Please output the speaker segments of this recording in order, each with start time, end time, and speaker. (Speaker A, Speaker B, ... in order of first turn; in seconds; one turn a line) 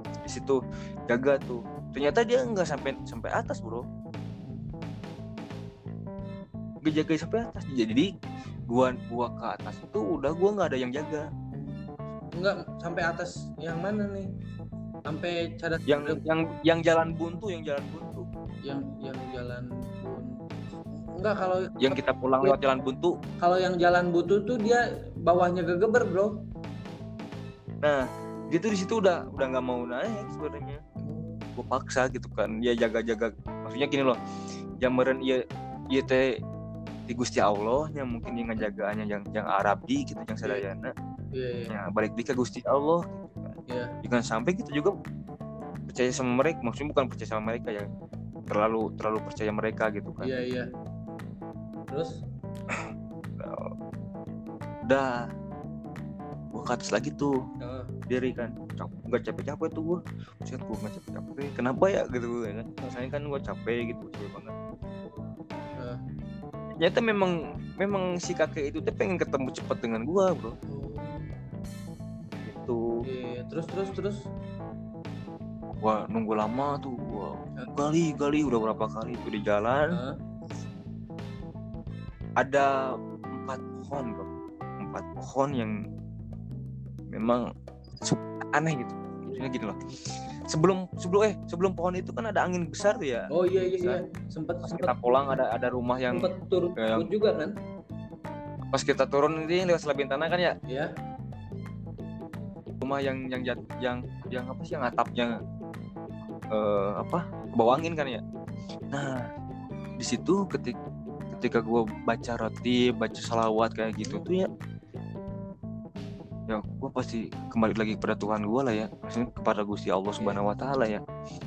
Speaker A: 0.2-3.9
Speaker B: 4.4-5.0
Speaker A: 6.8-8.1
Speaker A: 8.7-11.3
Speaker B: 11.5-14.3
Speaker B: 15.1-16.2
Speaker A: 15.9-18.2
Speaker B: 18.6-22.6
Speaker A: 21.8-23.1
Speaker B: 23.4-26.3
Speaker A: 27.8-30.8
Speaker B: 31.0-31.4
Speaker A: 31.6-34.2
Speaker A: 34.8-35.4
Speaker A: 35.9-36.2
Speaker A: 37.1-40.9
Speaker B: 41.4-41.7
Speaker A: 41.7-44.9
Speaker A: 45.9-47.9
Speaker A: 48.5-50.3
Speaker B: 50.2-50.6
Speaker A: 52.7-53.7
Speaker A: 56.5-57.3
Speaker B: 57.6-57.9
Speaker A: 58.1-64.5
Speaker A: 66.8-70.5
Speaker B: 70.7-71.3
Speaker A: 72.4-72.8
Speaker B: 73.0-74.2
Speaker A: 75.8-79.9
Speaker A: 82.4-82.7
Speaker A: 83.3-84.3
Speaker A: 84.8-85.7
Speaker A: 87.1-87.4
Speaker A: 88.0-89.8
Speaker A: 90.5-94.0
Speaker B: 93.3-95.4
Speaker A: 94.7-97.1
Speaker B: 96.1-97.5
Speaker A: 98.7-100.5
Speaker A: 102.8-105.3
Speaker A: 106.5-108.2
Speaker A: 108.9-109.2
Speaker A: 110.0-110.7
Speaker A: 111.3-114.5
Speaker B: 114.0-114.2
Speaker A: 116.5-121.0